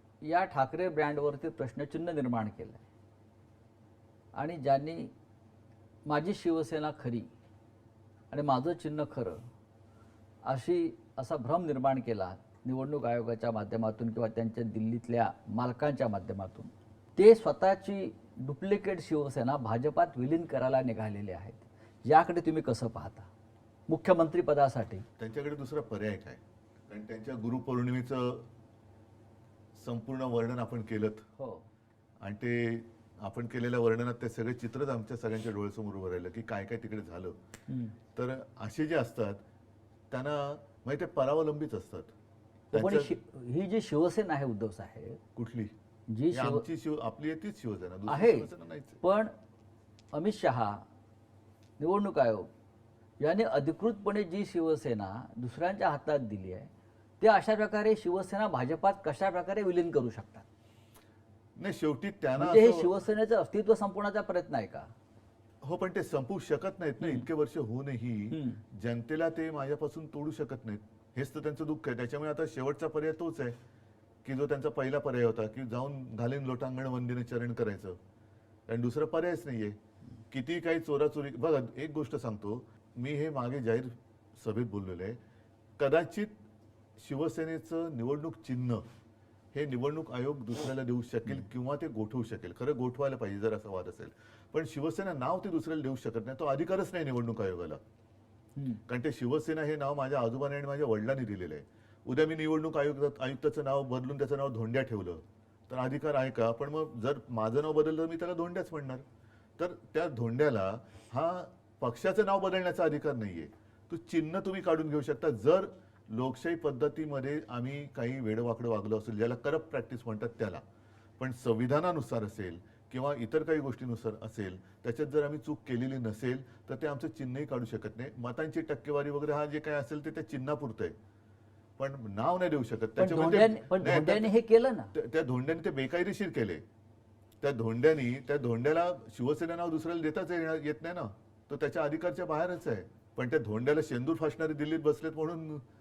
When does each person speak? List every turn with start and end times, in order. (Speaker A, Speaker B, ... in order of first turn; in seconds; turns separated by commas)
Speaker A: 0.2-2.8, Speaker A: 4.4-5.1, Speaker A: 6.1-7.3, Speaker A: 8.3-9.4, Speaker A: 10.5-23.3, Speaker A: 23.9-25.1, Speaker B: 25.2-28.5, Speaker B: 29.8-31.2, Speaker A: 31.4-31.6, Speaker B: 32.2-37.4, Speaker A: 37.7-38.0, Speaker B: 38.1-39.4, Speaker B: 40.1-42.1, Speaker A: 42.7-45.2, Speaker B: 42.7-43.1, Speaker B: 45.4-45.7, Speaker A: 46.1-46.7, Speaker B: 46.3-49.0, Speaker A: 48.1-48.5, Speaker A: 49.0-49.3, Speaker A: 50.1-50.8, Speaker A: 51.8-52.5, Speaker A: 53.2-60.5, Speaker B: 61.6-62.9, Speaker A: 62.4-64.9, Speaker B: 65.6-73.6, Speaker A: 67.0-67.3, Speaker A: 68.3-68.6, Speaker B: 74.2-78.0, Speaker B: 78.7-79.8, Speaker B: 80.3-85.2, Speaker B: 85.8-86.3, Speaker B: 87.0-88.8, Speaker B: 89.5-97.8, Speaker A: 98.6-98.8, Speaker B: 98.9-109.0, Speaker B: 109.6-120.6, Speaker B: 121.2-130.9, Speaker B: 131.8-134.3, Speaker A: 133.0-134.9, Speaker B: 134.9-136.6, Speaker B: 137.4-145.6